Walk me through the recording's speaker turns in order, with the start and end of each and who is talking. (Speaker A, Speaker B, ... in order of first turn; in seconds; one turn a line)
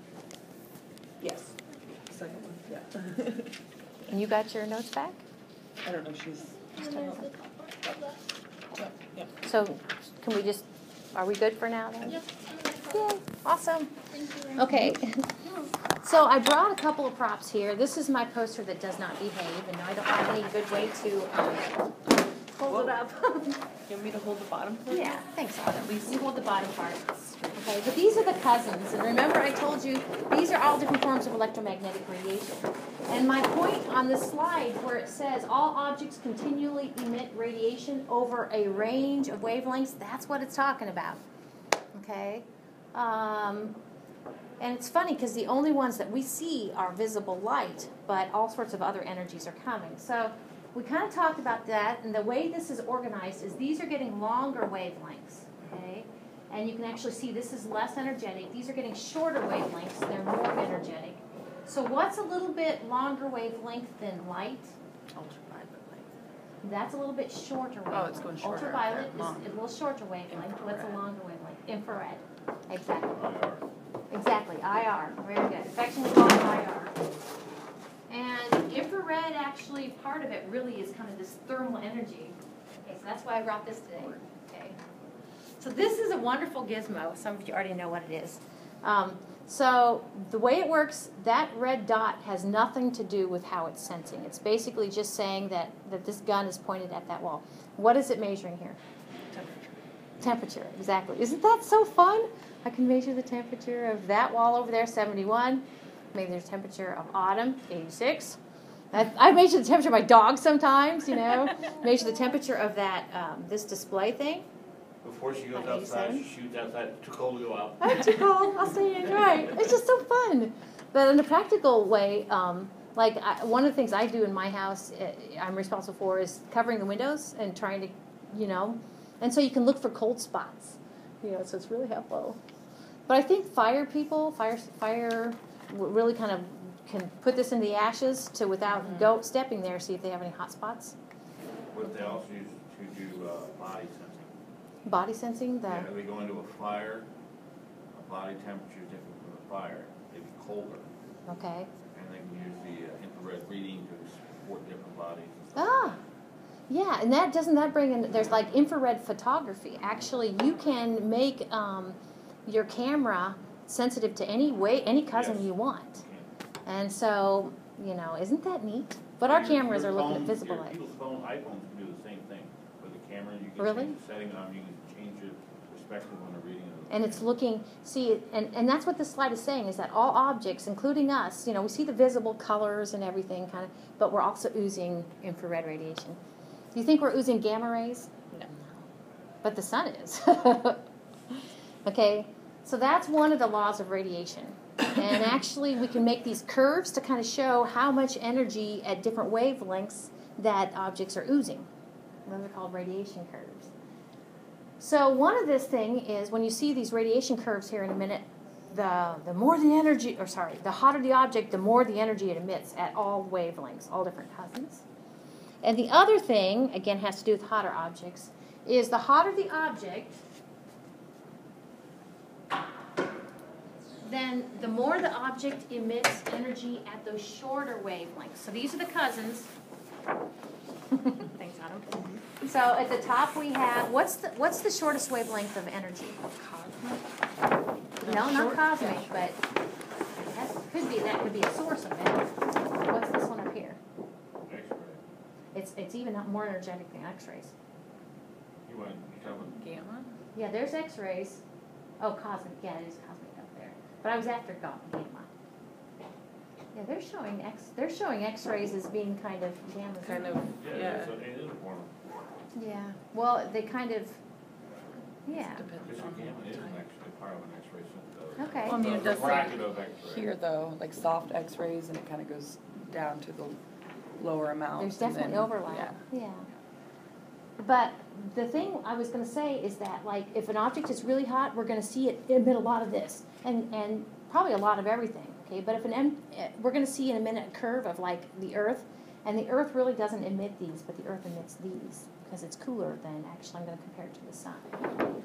Speaker A: 1.2-3.6
Speaker B: 4.1-5.2
Speaker A: 5.8-8.2
Speaker A: 8.8-9.3
Speaker B: 9.4-21.8
Speaker B: 22.6-23.6
Speaker A: 22.7-23.0
Speaker A: 23.9-25.2
Speaker B: 24.9-41.2
Speaker B: 41.9-43.8
Speaker B: 44.6-64.8
Speaker A: 65.1-66.1
Speaker B: 66.6-73.2
Speaker A: 67.9-69.5
Speaker A: 70.3-71.0
Speaker C: 73.2-73.6
Speaker B: 74.1-77.0
Speaker B: 78.1-84.8
Speaker B: 85.6-98.8
Speaker A: 99.3-99.8
Speaker B: 100.2-108.4
Speaker B: 108.9-114.5
Speaker C: 115.0-118.1
Speaker B: 115.5-116.2
Speaker B: 117.8-132.4
Speaker B: 133.1-141.0
Speaker A: 138.7-139.1
Speaker C: 141.7-144.4
Speaker B: 144.9-145.9
Speaker C: 145.7-147.1
Speaker C: 147.9-150.9
Speaker B: 151.3-151.7
Speaker C: 151.9-155.8
Speaker B: 155.6-156.0
Speaker B: 156.7-166.0
Speaker C: 165.1-166.3
Speaker B: 166.7-170.8
Speaker C: 169.2-177.2
Speaker B: 173.6-174.0
Speaker B: 176.9-186.2
Speaker B: 186.7-188.7
Speaker B: 189.4-201.7
Speaker B: 202.3-203.7
Speaker B: 204.8-214.8
Speaker B: 215.6-220.2
Speaker B: 224.0-229.5
Speaker B: 230.9-236.2
Speaker A: 236.3-237.2
Speaker A: 238.0-239.1
Speaker B: 238.0-239.4
Speaker B: 240.2-243.8
Speaker C: 244.4-245.0
Speaker B: 245.5-247.5
Speaker C: 248.7-249.6
Speaker A: 249.4-250.2
Speaker B: 250.3-251.4
Speaker B: 252.0-255.3
Speaker B: 256.7-260.4
Speaker A: 260.1-261.1
Speaker C: 260.6-262.0
Speaker B: 262.6-264.2
Speaker B: 265.3-265.7
Speaker A: 265.3-266.8
Speaker C: 265.8-270.3
Speaker B: 268.4-268.8
Speaker A: 268.7-273.6
Speaker A: 274.2-276.0
Speaker B: 274.8-276.5
Speaker B: 277.6-294.7